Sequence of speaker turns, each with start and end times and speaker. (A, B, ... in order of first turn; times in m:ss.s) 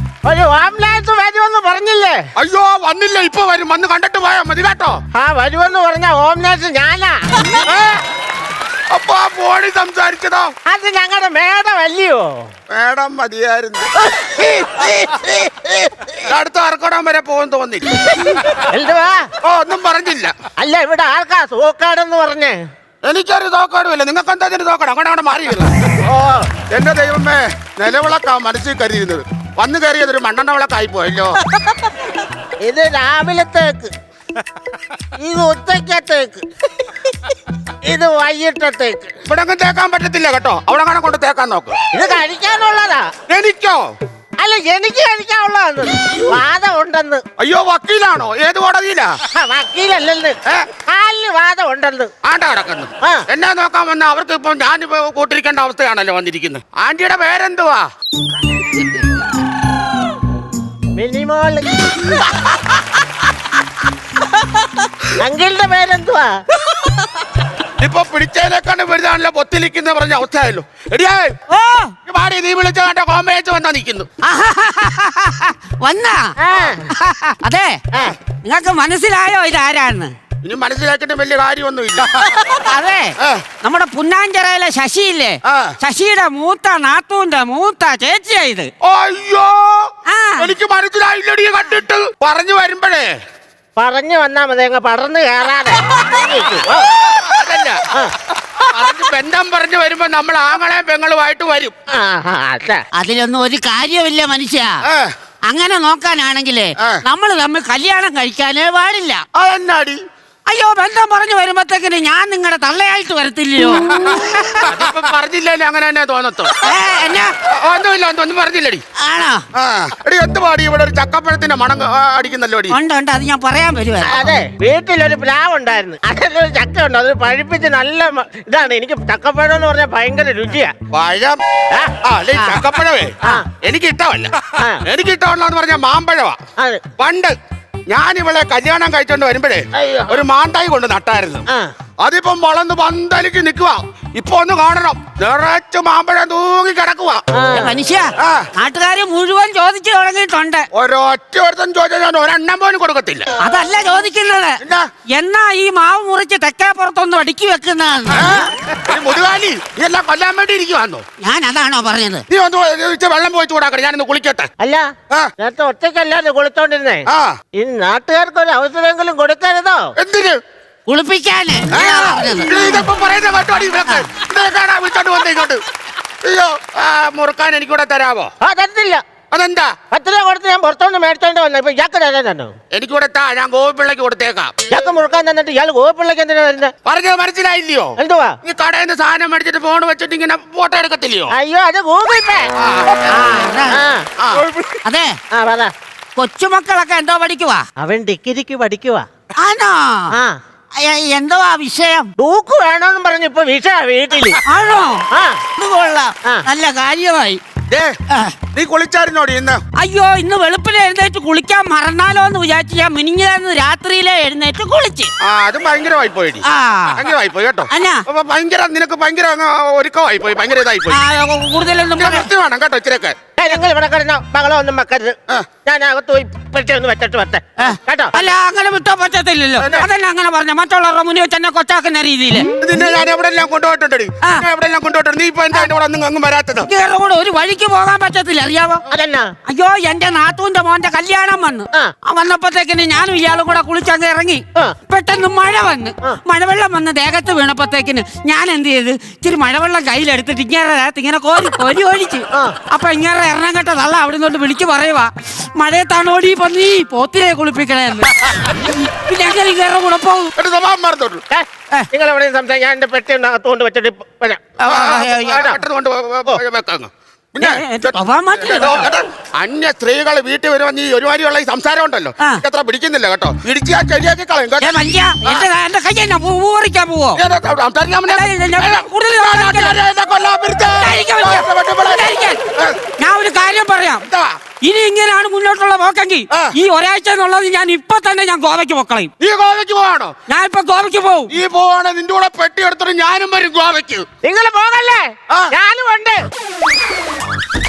0:00.2-0:02.2 A
0:02.4-0:05.0 B
0:05.1-0:07.6 A
0:08.9-0:10.5 B
0:10.7-0:12.5 A
0:12.7-0:14.0 B
0:14.2-0:15.9 A
0:16.1-0:18.2 B
0:18.7-0:19.2 A
0:19.4-0:20.3 B
0:20.6-0:22.6 A
0:23.0-0:25.9 B
0:26.0-0:26.5 A
0:26.7-0:31.4 B
0:32.6-0:33.9 A
0:35.2-0:36.4 A
0:37.8-0:39.1 A
0:39.3-0:41.8 B
0:41.9-0:43.1 A
0:43.3-0:43.9 B
0:44.4-0:47.2 A
0:47.4-0:49.2 B
0:49.3-0:52.1 A
0:52.2-0:57.9 B
1:00.9-1:02.1 A
1:05.2-1:06.3 A
1:07.8-1:11.4 B
1:11.5-1:11.9 C
1:12.1-1:14.1 B
1:14.2-1:16.3 C
1:16.4-1:16.9 A
1:16.9-1:17.8 C
1:18.4-1:20.1 C
1:20.4-1:22.5 B
1:22.6-1:23.0 C
1:23.2-1:23.4 B
1:23.6-1:28.7 C
1:25.4-1:25.7 B
1:28.8-1:33.1 B
1:30.1-1:30.5 C
1:33.8-1:36.9 A
1:37.1-1:37.8 B
1:38.5-1:41.7 B
1:41.9-1:42.8 A
1:42.9-1:44.8 C
1:44.8-1:45.1 B
1:45.5-1:49.2 C
1:49.3-1:50.0 B
1:50.5-1:54.6 C
1:53.8-1:56.5 B
1:56.6-1:57.3 C
1:57.4-1:58.8 B
1:59.0-1:59.4 C
1:59.5-2:02.8 B
2:02.7-2:04.3 C
2:04.0-2:10.7 A
2:10.9-2:11.4 B
2:12.0-2:16.4 B
2:14.6-2:14.8 A
2:16.6-2:16.8 A
2:17.0-2:17.3 B
2:17.9-2:21.4 B
2:19.8-2:20.1 A
2:22.0-2:27.2 B
2:27.3-2:27.7 A
2:27.5-2:30.7 C
2:28.2-2:28.5 B
2:30.7-2:33.3 B
2:33.4-2:34.6 C
2:34.6-2:34.9 B
2:35.1-2:38.4 C
2:38.1-2:41.0 B
2:41.2-2:42.2 C
2:42.3-2:44.5 B
2:44.6-2:44.9 A
2:45.4-2:47.0 A
2:47.1-2:47.3 B
2:47.6-2:49.9 A
2:50.0-2:50.4 B
2:50.9-2:52.6 C
2:51.7-2:55.6 B
2:56.2-2:58.3 B
2:58.4-2:59.0 A
2:59.3-2:59.8 B
2:59.9-3:02.5 A
3:02.7-3:04.7 B
3:04.7-3:06.7 A
3:06.8-3:11.3 B
3:08.0-3:08.4 A
3:11.3-3:12.5 A
3:12.6-3:13.0 B
3:13.1-3:13.8 C
3:13.7-3:14.8 A
3:14.2-3:14.4 B
3:14.8-3:15.1 C
3:15.3-3:15.7 A
3:16.2-3:17.6 C
3:17.8-3:19.1 A
3:19.4-3:20.1 C
3:20.8-3:22.1 C
3:22.2-3:24.4 A
3:24.4-3:25.0 C
3:25.1-3:25.4 A
3:25.6-3:27.4 C
3:27.7-3:27.9 B
3:28.1-3:28.4 C
3:28.5-3:29.6 B
3:29.8-3:35.1 C
3:35.2-3:41.0 B
3:36.4-3:37.0 C
3:37.7-3:38.0 C
3:40.9-3:42.3 C
3:42.0-3:43.2 B
3:43.4-3:48.2 A
3:47.6-3:52.5 C
3:49.6-3:49.9 B
3:52.6-3:56.7 B
3:56.6-3:58.8 C
3:58.9-3:59.3 A
3:59.4-4:20.3 C
4:20.4-4:21.2 B
4:21.3-4:24.4 A
4:24.6-4:25.5 C
4:24.7-4:35.4 B
4:25.3-4:25.6 A
4:27.4-4:28.9 C
4:34.6-4:37.2 C
4:37.2-4:42.8 B
4:38.1-4:39.8 C
4:40.8-4:42.4 C
4:43.0-4:44.1 C
4:44.0-4:44.3 B
4:44.6-4:49.1 C
4:49.2-4:50.1 B
4:50.3-4:51.3 C
4:51.3-4:54.1 B
4:54.2-4:56.2 A